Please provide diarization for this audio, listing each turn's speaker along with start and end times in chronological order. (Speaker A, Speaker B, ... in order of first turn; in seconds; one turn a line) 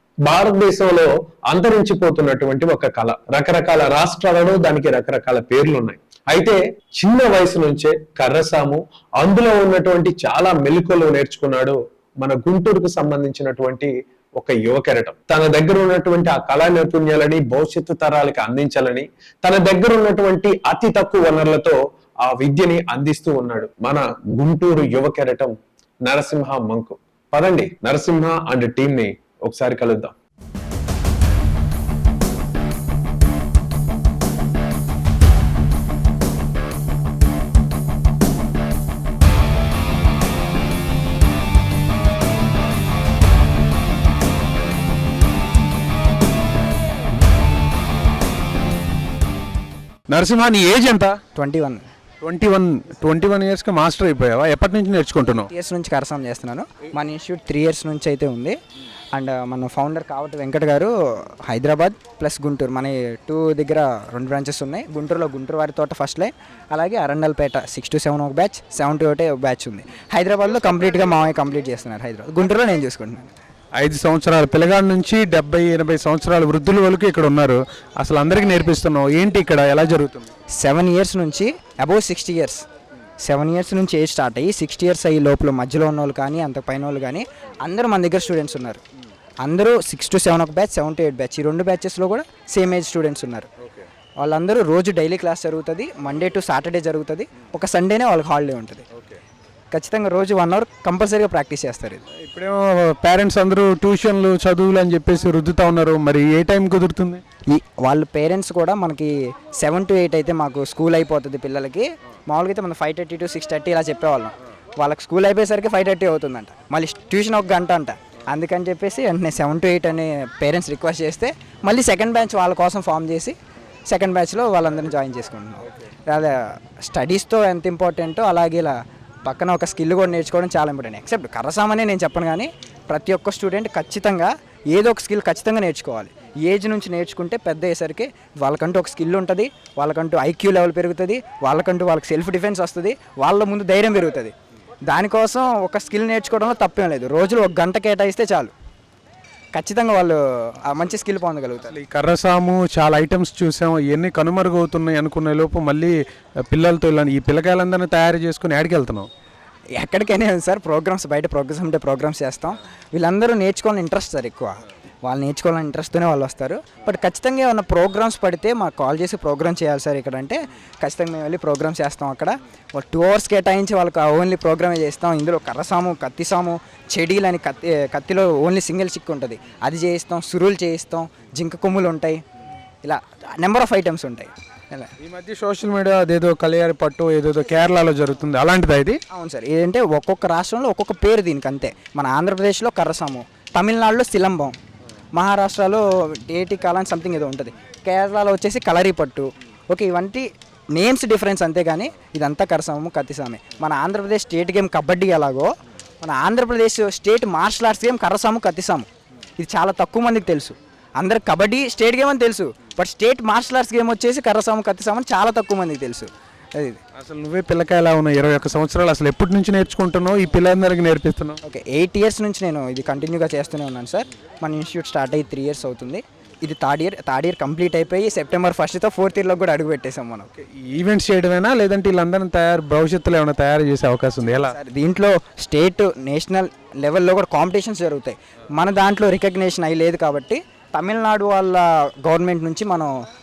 Speaker A: 0.3-30.1
Speaker B: 50.1-51.2
Speaker C: 51.4-51.9
Speaker B: 52.2-55.5
Speaker C: 55.5-58.6
Speaker C: 59.1-73.3
Speaker B: 73.8-80.3
Speaker C: 80.6-82.6
Speaker C: 83.2-88.8
Speaker C: 89.4-93.5
Speaker C: 94.2-98.8
Speaker C: 99.7-102.0
Speaker B: 102.2-107.2
Speaker C: 107.5-123.4
Speaker C: 123.9-126.3
Speaker C: 126.9-128.8
Speaker C: 129.3-144.3
Speaker C: 144.9-148.5
Speaker C: 149.6-151.8
Speaker B: 151.8-155.9
Speaker B: 156.5-159.1
Speaker C: 159.8-164.5
Speaker C: 165.1-182.2
Speaker C: 182.8-184.9
Speaker B: 185.1-189.0
Speaker C: 189.2-194.6
Speaker C: 195.2-205.5
Speaker C: 206.0-208.9
Speaker C: 209.4-216.8
Speaker B: 217.0-221.4
Speaker C: 221.5-230.3
Speaker B: 230.4-234.5
Speaker C: 234.5-242.9